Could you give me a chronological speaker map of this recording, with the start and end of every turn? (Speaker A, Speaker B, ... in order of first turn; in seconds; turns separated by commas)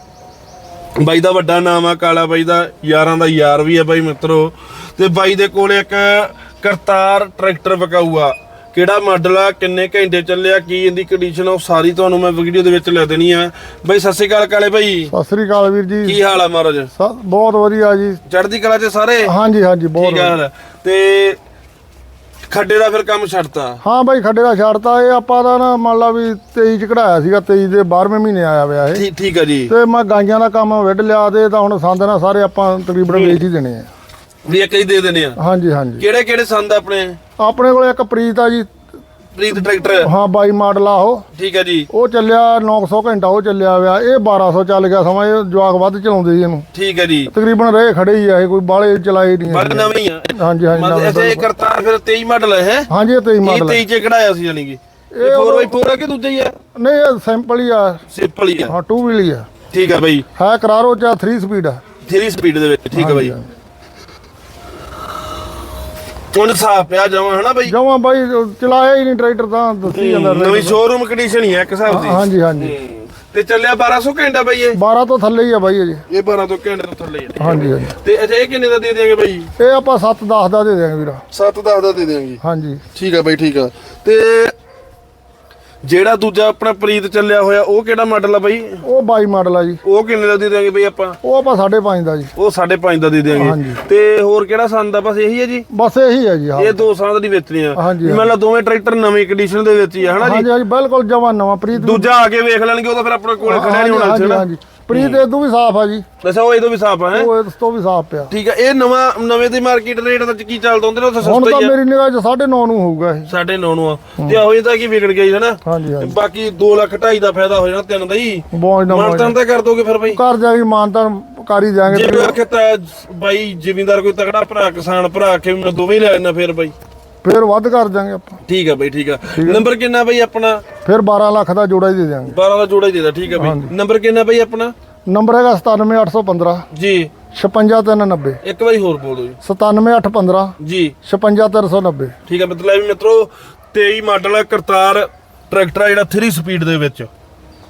Speaker A: 1.0-15.1, Speaker B: 15.1-16.2, Speaker A: 16.0-16.9, Speaker B: 16.9-18.2, Speaker A: 18.3-19.3, Speaker B: 19.2-20.4, Speaker A: 19.9-21.4, Speaker A: 22.5-23.8, Speaker B: 23.8-29.0, Speaker A: 28.9-29.7, Speaker B: 29.7-33.9, Speaker A: 33.1-33.4, Speaker A: 34.5-35.4, Speaker B: 35.4-36.0, Speaker A: 36.0-37.2, Speaker B: 37.4-38.7, Speaker A: 39.4-40.1, Speaker B: 40.0-41.2, Speaker A: 41.4-41.9, Speaker B: 41.9-46.7, Speaker A: 46.7-47.3, Speaker B: 47.3-51.5, Speaker A: 49.5-52.9, Speaker B: 52.9-53.8, Speaker A: 53.4-56.6, Speaker B: 55.2-55.7, Speaker B: 56.8-58.0, Speaker A: 58.1-58.8, Speaker B: 58.7-59.5, Speaker A: 59.7-60.3, Speaker B: 60.4-61.8, Speaker A: 62.0-63.4, Speaker B: 63.0-63.5, Speaker A: 66.3-67.8, Speaker B: 67.7-70.8, Speaker A: 69.9-74.8, Speaker B: 71.9-72.8, Speaker B: 74.7-76.0, Speaker A: 76.1-79.5, Speaker B: 77.4-78.0, Speaker B: 79.6-81.2, Speaker A: 81.3-82.4, Speaker B: 82.4-82.8, Speaker A: 82.9-84.5, Speaker A: 85.8-88.8, Speaker B: 88.8-89.8, Speaker A: 89.8-91.2, Speaker B: 91.2-92.3, Speaker A: 92.4-95.7, Speaker B: 93.3-93.8, Speaker B: 95.7-96.9, Speaker A: 96.5-100.5, Speaker B: 97.8-98.3, Speaker B: 100.2-102.2, Speaker A: 101.7-105.2, Speaker B: 103.4-106.0, Speaker A: 106.2-107.3, Speaker B: 107.1-108.3, Speaker A: 108.3-111.7, Speaker B: 111.2-113.3, Speaker A: 113.3-120.2, Speaker B: 115.7-116.2, Speaker B: 118.5-119.3, Speaker B: 120.1-122.4, Speaker A: 121.9-126.7, Speaker B: 127.2-128.4, Speaker A: 128.5-130.6, Speaker B: 129.4-129.7, Speaker B: 130.8-132.4, Speaker A: 132.3-134.7, Speaker B: 133.3-133.7, Speaker B: 135.1-136.7, Speaker A: 136.7-137.1, Speaker B: 137.3-138.4, Speaker A: 138.4-139.4, Speaker B: 139.4-140.5, Speaker A: 140.6-140.9, Speaker B: 141.1-142.1, Speaker A: 142.3-147.1